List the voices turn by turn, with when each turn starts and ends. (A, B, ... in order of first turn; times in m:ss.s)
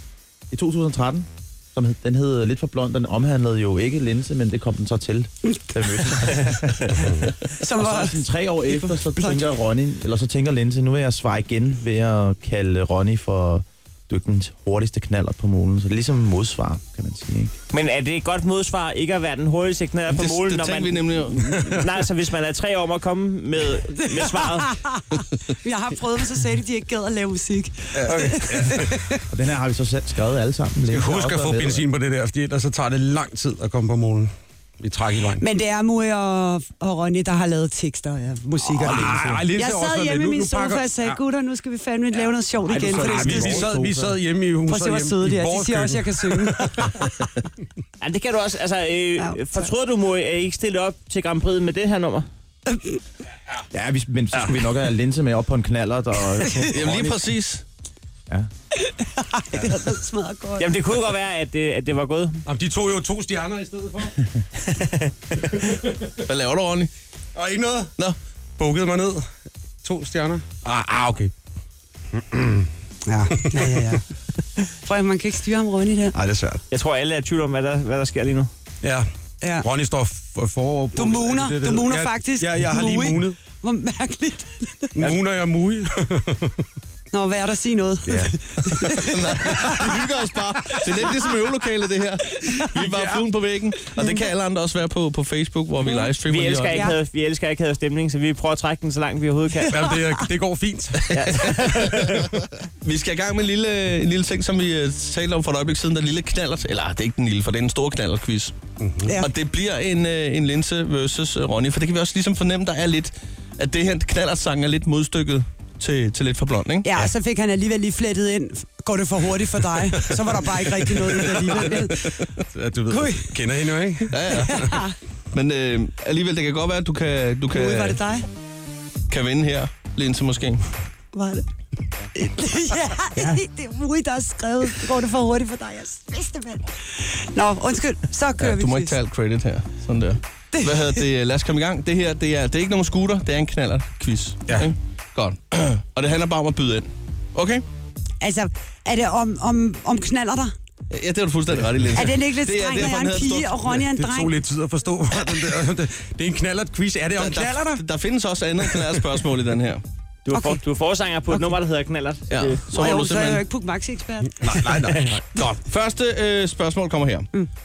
0:00.5-0:17.5 A
0:07.6-0:09.5 B
0:17.7-0:24.8 C
0:20.1-0:21.4 D
0:24.7-0:29.2 B
0:27.9-0:28.9 E
0:29.3-0:31.8 A
0:30.9-0:35.4 E
0:35.4-0:43.7 B
0:38.7-0:41.2 E
0:42.6-0:44.2 A
0:42.8-0:47.1 E
0:44.7-0:47.2 B
0:48.0-0:52.2 C
0:49.2-0:49.7 B
0:53.7-0:57.3 A
0:56.7-0:57.6 D
0:58.8-1:00.7 B
1:00.6-1:02.4 C
1:02.4-1:04.2 E
1:06.2-1:06.9 D
1:07.3-1:07.9 E
1:08.6-1:09.2 E
1:09.8-1:11.3 E
1:12.1-1:12.7 E
1:13.0-1:14.0 B
1:13.3-1:13.6 E
1:14.8-1:16.2 B
1:16.1-1:16.6 E
1:16.7-1:18.5 C
1:19.4-1:19.7 B
1:19.6-1:23.4 E
1:20.9-1:25.0 B
1:25.0-1:26.6 E
1:27.1-1:30.0 B
1:28.1-1:28.3 E
1:28.8-1:36.9 D
1:32.8-1:33.3 E
1:34.0-1:34.2 B
1:35.8-1:36.1 B
1:36.2-1:39.7 C
1:36.7-1:37.0 B
1:39.6-1:41.5 E
1:39.7-1:40.2 B
1:41.1-1:42.3 C
1:41.3-1:48.5 D
1:48.8-1:49.2 E
1:49.0-1:49.3 B
1:49.1-1:56.9 D
1:56.8-2:02.1 B
1:59.9-2:00.2 E
2:00.8-2:04.8 E
2:01.4-2:02.3 D
2:02.9-2:03.3 B
2:04.1-2:04.5 D
2:04.3-2:04.9 B
2:05.3-2:08.0 D
2:07.5-2:08.2 B
2:09.1-2:10.7 D
2:11.1-2:11.4 B
2:12.1-2:19.0 B
2:18.4-2:27.6 D
2:20.5-2:21.0 B
2:28.2-2:30.5 B
2:30.9-2:33.6 D
2:31.9-2:34.3 B
2:33.9-2:37.8 E
2:37.2-2:39.8 D
2:38.7-2:39.0 E
2:40.2-2:42.6 C
2:40.3-2:40.6 B
2:41.3-2:41.5 B
2:42.3-2:43.4 D
2:42.7-2:44.5 B
2:44.4-2:45.6 E
2:44.7-2:45.1 C
2:45.4-2:47.3 D